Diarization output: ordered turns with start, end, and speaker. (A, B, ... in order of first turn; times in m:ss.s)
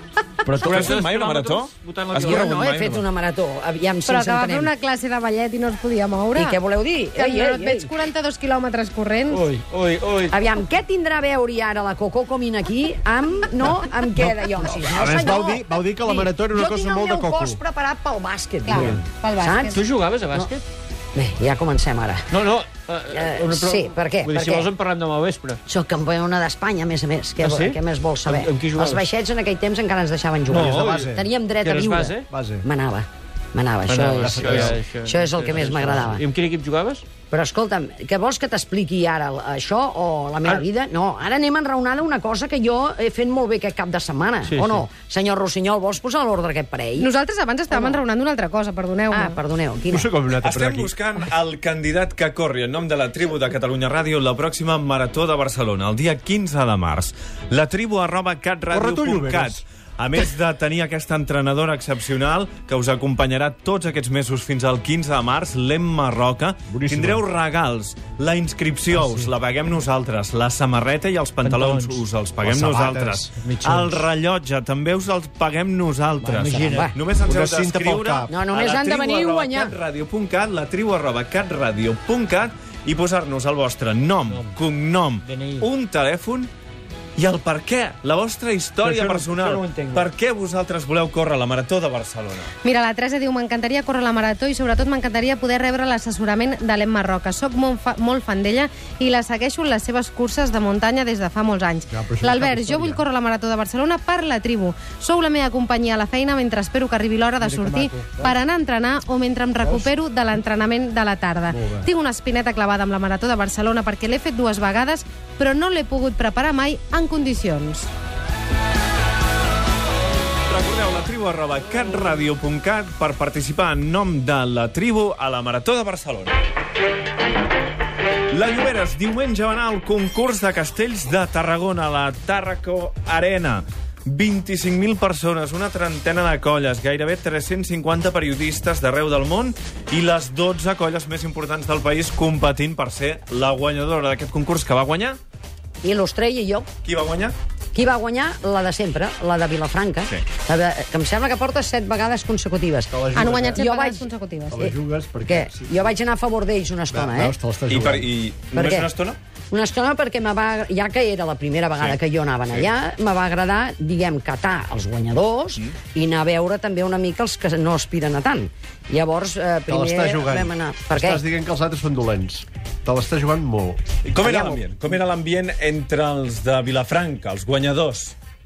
0:00.5-0:00.8 A
0:00.5-0:02.8 B
0:00.6-0:03.0 C
0:02.2-0:04.7 D
0:04.1-0:06.6 E
0:06.4-0:08.0 D
0:07.2-0:09.5 E
0:09.3-0:10.4 B
0:10.3-0:19.8 D
0:14.2-0:17.6 A
0:18.6-0:19.8 E
0:19.7-0:20.6 B
0:21.2-0:22.2 D
0:22.3-0:25.6 B
0:23.1-0:24.7 D
0:25.7-0:36.2 D
0:27.4-0:29.0 B
0:30.5-0:32.3 B
0:30.6-0:31.3 A
0:32.3-0:32.6 A
0:33.9-0:37.0 B
0:34.2-0:34.8 A
0:37.3-0:47.1 D
0:44.5-0:44.8 B
0:47.0-0:49.4 E
0:47.7-0:48.0 D
0:49.1-0:50.1 D
0:49.9-0:50.9 A
0:50.4-1:26.5 C
0:58.7-0:59.6 A
1:06.7-1:07.2 A
1:09.0-1:09.3 B
1:11.4-1:12.0 B
1:12.4-1:13.3 A
1:13.3-1:14.0 B
1:16.2-1:16.9 B
1:16.6-1:17.0 D
1:17.2-1:18.3 A
1:18.3-1:19.7 D
1:24.3-1:24.6 B
1:25.2-1:25.7 B
1:27.2-1:32.5 C
1:28.8-1:30.1 B
1:32.6-1:57.9 E
1:41.9-1:43.0 A
1:47.4-1:48.3 B
1:51.5-1:51.8 A
2:00.5-2:06.4 C
2:08.3-2:25.2 C
2:25.8-2:26.7 D
2:26.8-2:27.4 C
2:27.7-2:33.0 D
2:32.9-2:33.6 A
2:33.1-2:34.7 E
2:33.5-2:34.1 D
2:34.5-2:35.9 A
2:35.3-2:37.3 D
2:36.9-2:38.1 A
2:37.7-2:39.2 C
2:38.5-2:38.9 D
2:39.5-2:51.2 D
2:49.7-2:53.8 A
2:54.0-2:58.2 C
2:54.2-2:54.6 D